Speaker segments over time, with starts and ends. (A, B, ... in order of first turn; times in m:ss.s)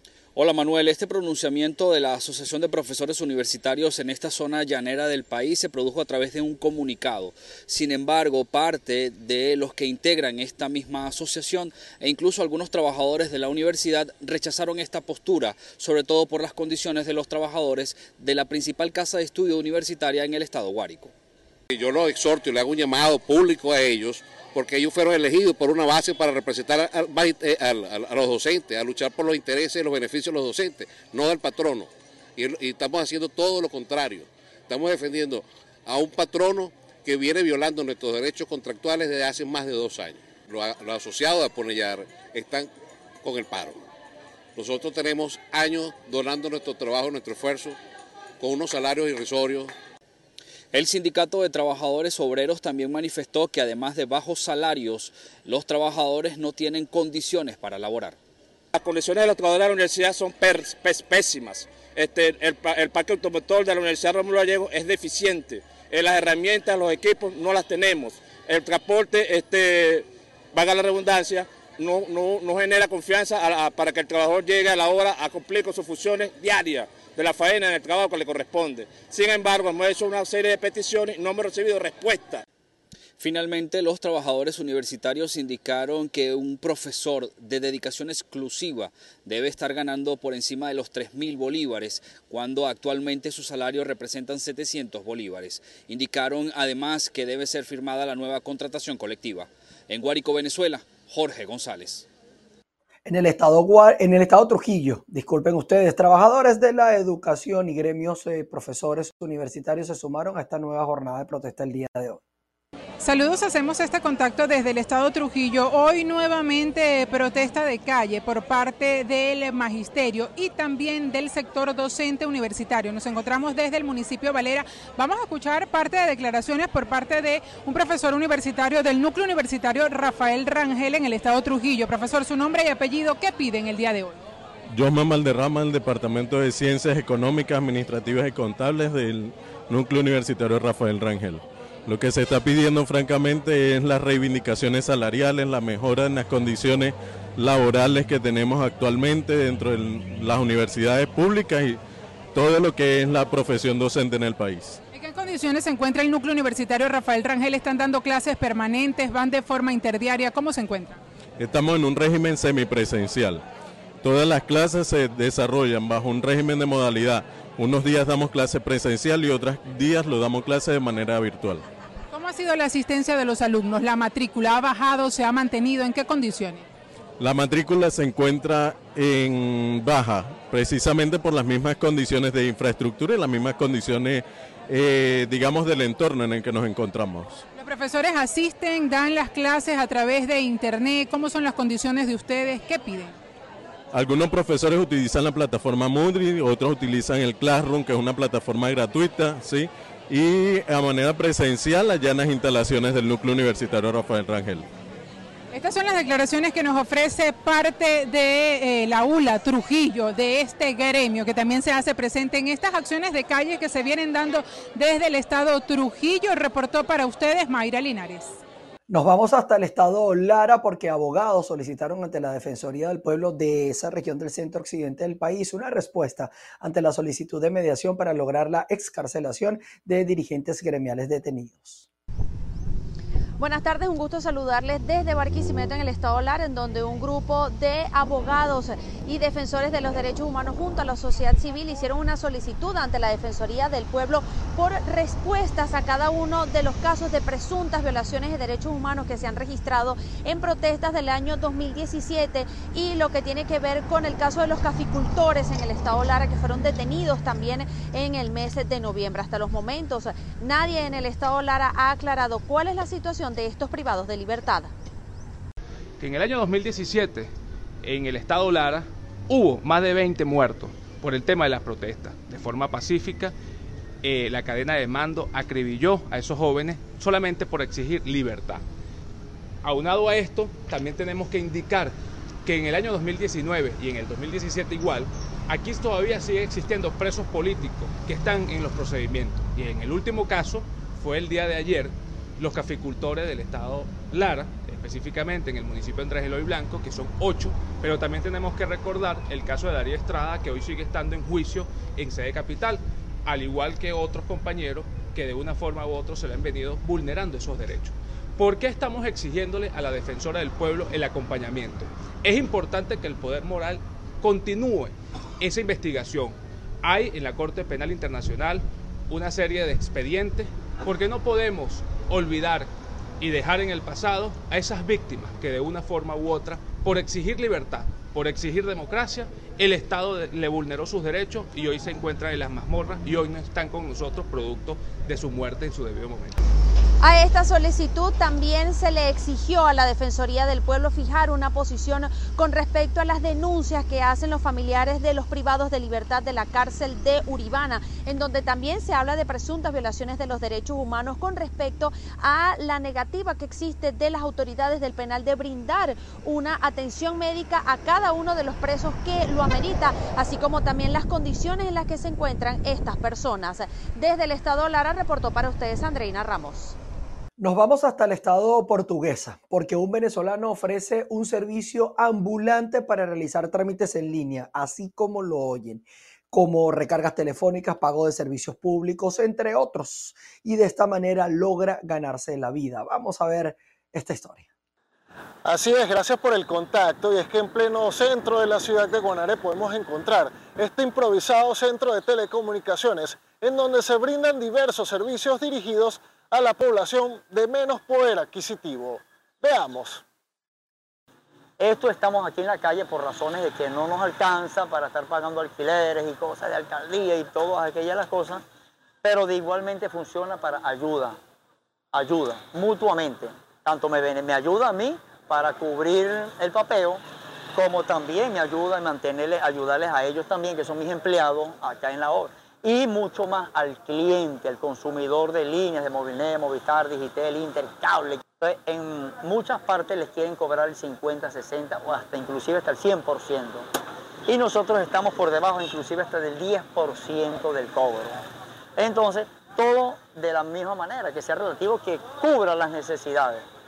0:00.3-0:21.1 A
0:21.7-0:31.9 B
0:32.4-0:42.6 B
0:43.2-0:43.7 B
0:44.6-0:47.7 B
0:48.4-0:49.7 B
0:50.7-0:58.2 A
0:58.7-1:22.4 C
1:23.2-1:42.0 A
1:43.0-1:52.2 D
1:53.0-2:14.2 E
2:14.7-2:31.8 F
2:32.3-2:34.8 F
2:34.9-2:41.0 E
2:41.4-2:43.4 F
2:44.0-2:51.6 F
2:52.1-2:56.6 E
2:57.2-3:07.4 F
3:07.6-3:13.2 E
3:13.9-3:24.6 F
3:25.5-3:38.4 E
3:38.9-3:51.9 D
3:53.4-4:24.7 G
4:26.0-4:27.3 H
4:27.8-4:33.3 H
4:34.0-4:38.6 H
4:39.6-4:41.9 H
4:42.4-5:22.7 H
5:23.2-5:36.4 H
5:37.0-6:06.8 G
6:07.4-6:24.5 D
6:25.5-6:40.0 I
6:41.6-6:48.4 J
6:49.0-6:51.2 J
6:51.9-6:57.0 J
6:57.5-7:13.6 J
7:14.3-7:18.1 J
7:18.8-7:23.4 J